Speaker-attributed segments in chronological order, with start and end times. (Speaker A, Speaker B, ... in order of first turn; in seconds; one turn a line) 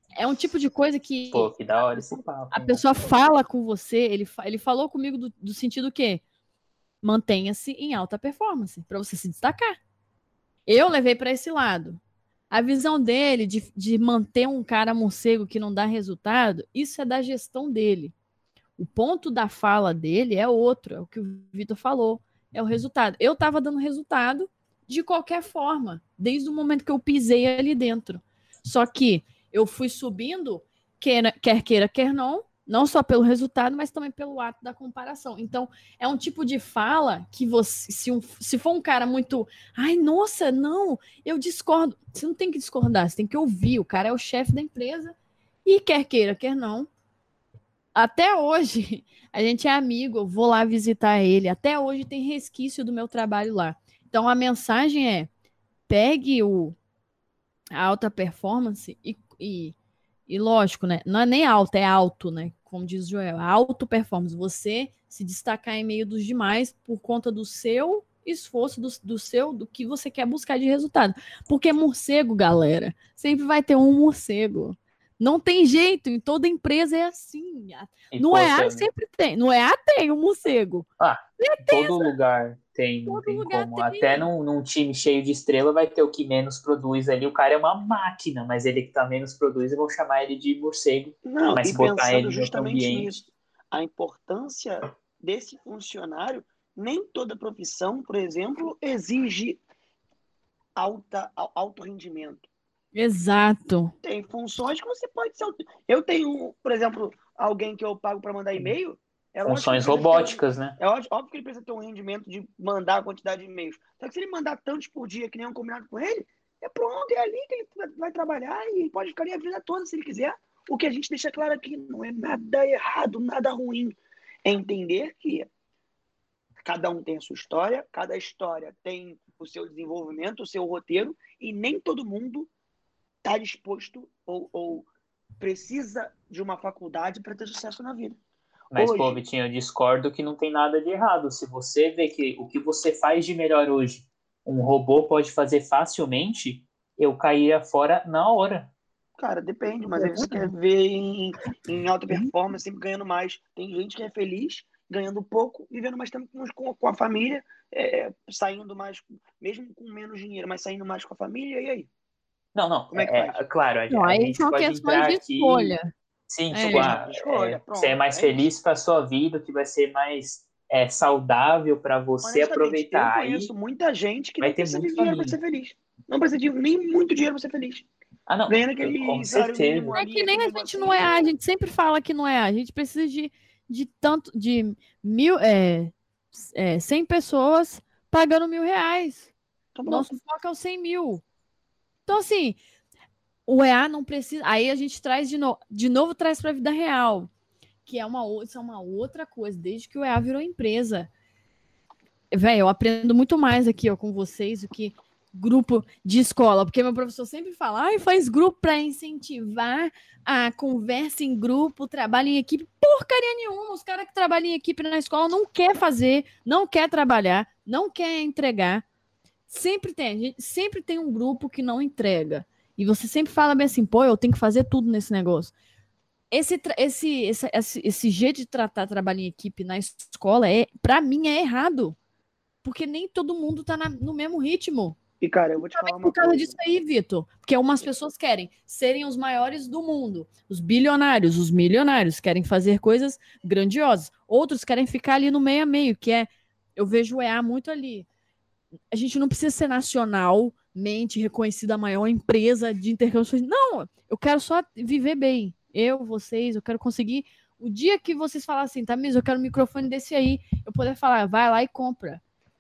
Speaker A: 0.1-6.2
Speaker B: 1.3-2.8
Speaker A: 7.0-9.8
Speaker A: 10.7-18.1
Speaker A: 18.8-46.9
Speaker A: 47.9-55.3
Speaker A: 55.9-56.8
Speaker A: 57.7-59.7
Speaker A: 60.3-80.9
Speaker B: 78.1-78.9
Speaker B: 81.0-93.2
Speaker A: 81.4-82.1
Speaker A: 83.1-84.3
Speaker C: 91.2-99.6
Speaker C: 100.8-102.5
Speaker A: 102.9-103.9
Speaker C: 104.0-125.5
Speaker B: 109.5-110.8
Speaker C: 126.6-132.5
Speaker C: 133.2-134.9
Speaker C: 135.4-138.2
Speaker C: 138.7-139.2
Speaker B: 138.7-148.7
Speaker C: 149.2-161.9
Speaker A: 150.0-150.5
Speaker B: 162.5-165.7
Speaker C: 162.9-163.4
Speaker A: 163.9-165.8
Speaker B: 166.3-173.5
Speaker A: 166.5-166.9
Speaker C: 166.6-168.5
Speaker C: 172.2-177.9
Speaker B: 174.4-175.4
Speaker B: 178.3-180.0
Speaker C: 178.5-181.3
Speaker A: 179.9-189.3
Speaker C: 189.7-190.1
Speaker A: 189.8-191.2
Speaker A: 192.1-192.6
Speaker A: 193.4-197.3
Speaker A: 197.8-201.1
Speaker A: 202.3-218.8
Speaker A: 219.5-225.5
Speaker A: 226.3-232.0
Speaker A: 232.6-235.0
Speaker C: 235.2-236.5
Speaker A: 235.7-248.1
Speaker A: 248.9-262.2